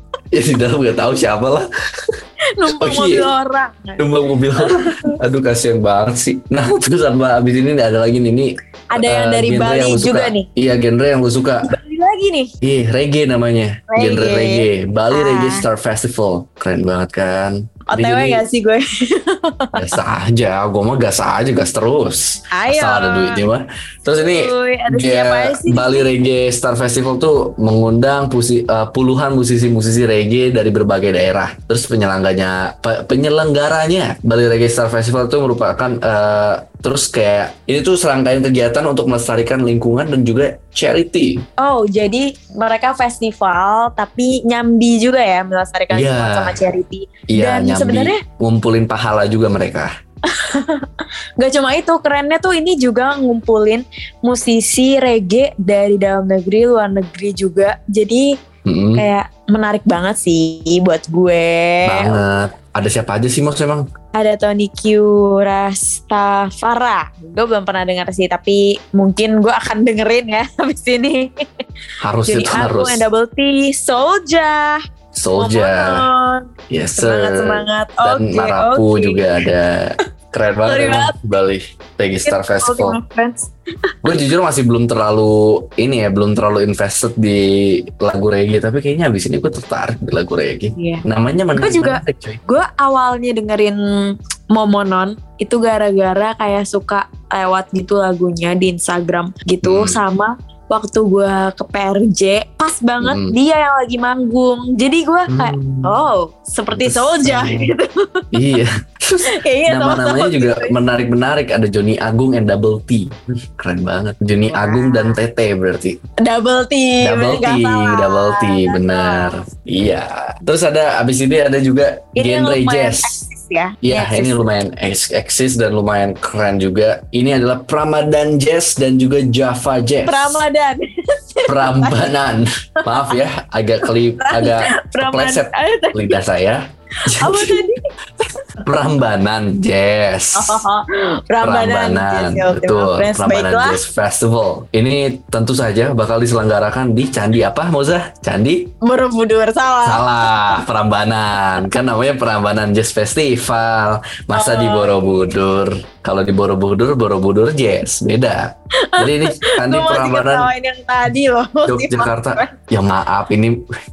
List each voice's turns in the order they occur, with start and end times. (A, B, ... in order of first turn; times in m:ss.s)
0:00.3-0:03.3 A
0:02.5-0:05.2 B
0:04.0-0:11.8 A
0:08.9-0:10.5 B
0:11.6-0:12.5 B
0:12.6-0:18.4 A
0:13.9-0:15.6 B
0:17.9-0:19.9 B
0:19.7-0:41.4 A
0:22.5-0:23.4 B
0:24.2-0:26.1 B
0:41.6-0:48.2 B
0:45.9-0:46.6 A
0:47.3-0:49.9 A
0:50.3-0:50.9 B
0:51.4-0:58.4 B
0:58.6-0:59.0 A
0:59.0-1:02.2 B
1:01.8-1:03.8 A
1:04.1-1:11.4 B
1:12.0-1:13.0 A
1:12.2-1:14.8 B
1:15.1-1:16.0 A
1:15.3-1:19.5 B
1:16.7-1:23.0 A
1:20.7-1:21.2 B
1:22.2-1:24.2 B
1:24.0-1:32.4 A
1:30.8-1:31.0 B
1:31.6-1:48.3 B
1:39.6-1:40.0 A
1:43.0-1:43.3 A
1:45.3-1:46.0 A
1:46.7-1:47.7 A
1:48.3-1:56.0 A
1:49.2-1:50.8 B
1:54.5-1:55.2 B
1:56.2-1:59.4 B
1:57.0-2:03.2 A
2:02.2-2:04.4 B
2:03.8-2:10.4 A
2:10.0-2:12.1 B
2:11.5-2:17.6 A
2:12.8-2:13.2 B
2:14.2-2:16.2 B
2:17.0-2:17.8 B
2:18.6-2:20.6 A
2:20.3-2:23.8 B
2:21.4-2:28.7 A
2:28.8-2:30.6 B
2:29.8-2:40.5 A
2:34.3-2:35.3 B
2:38.8-2:42.5 B
2:41.6-2:43.6 A